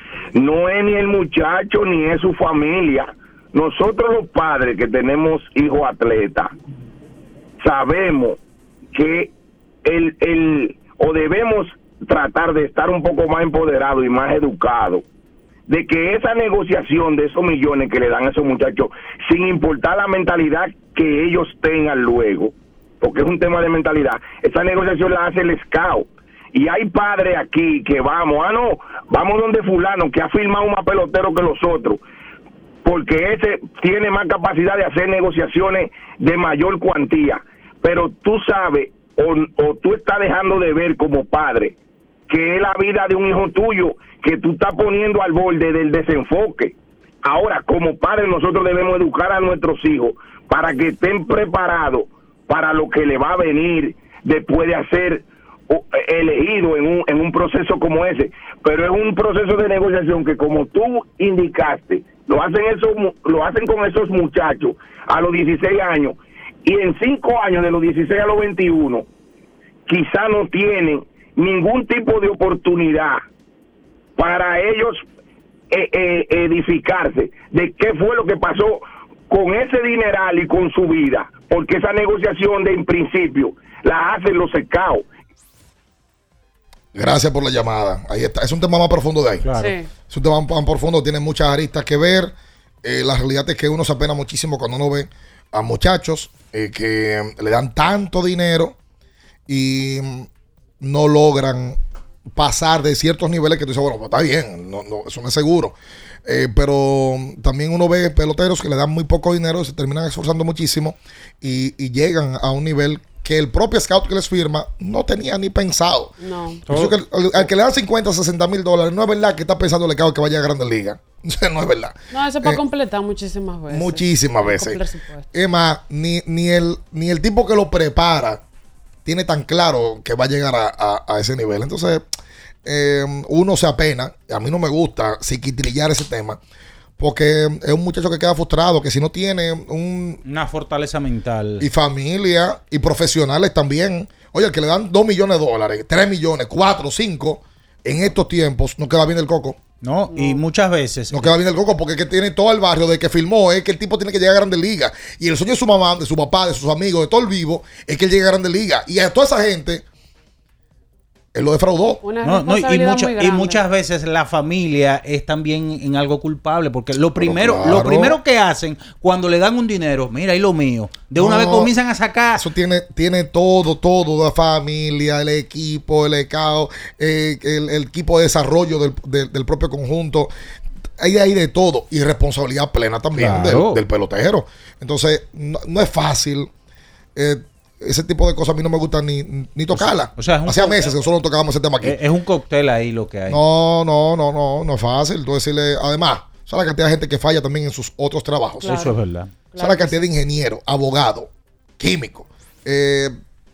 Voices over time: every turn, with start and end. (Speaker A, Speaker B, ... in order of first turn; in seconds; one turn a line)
Speaker A: 0.3-6.5
Speaker A: 7.6-8.4
Speaker A: 8.9-9.3
Speaker A: 9.8-15.0
Speaker A: 15.7-32.0
Speaker A: 32.8-41.7
Speaker A: 42.3-69.0
Speaker A: 69.9-73.2
Speaker A: 74.2-75.0
Speaker A: 75.7-85.0
Speaker B: 86.9-89.5
Speaker C: 89.4-89.7
Speaker D: 89.5-89.9
Speaker B: 90.1-98.7
Speaker B: 99.5-100.3
Speaker B: 100.8-101.8
Speaker B: 102.3-116.1
Speaker D: 116.2-116.6
Speaker B: 116.7-122.6
Speaker C: 116.7-117.0
Speaker D: 122.1-125.3
Speaker B: 123.7-124.8
Speaker B: 125.3-128.4
Speaker B: 129.0-132.0
Speaker B: 132.6-136.4
Speaker B: 137.0-140.2
Speaker C: 140.2-141.7
Speaker B: 141.6-149.6
Speaker C: 149.8-151.3
Speaker D: 150.1-150.4
Speaker B: 151.1-159.8
Speaker B: 161.3-162.0
Speaker D: 162.0-163.6
Speaker C: 162.2-172.4
Speaker B: 167.2-168.2
Speaker B: 171.2-171.7
Speaker B: 172.4-180.3
Speaker B: 181.0-186.5
Speaker C: 183.1-183.8
Speaker B: 187.2-192.0
Speaker C: 189.7-190.9
Speaker C: 191.8-193.4
Speaker B: 193.3-198.7
Speaker D: 198.6-199.0
Speaker C: 198.7-199.3
Speaker D: 199.5-200.0
Speaker B: 199.6-203.1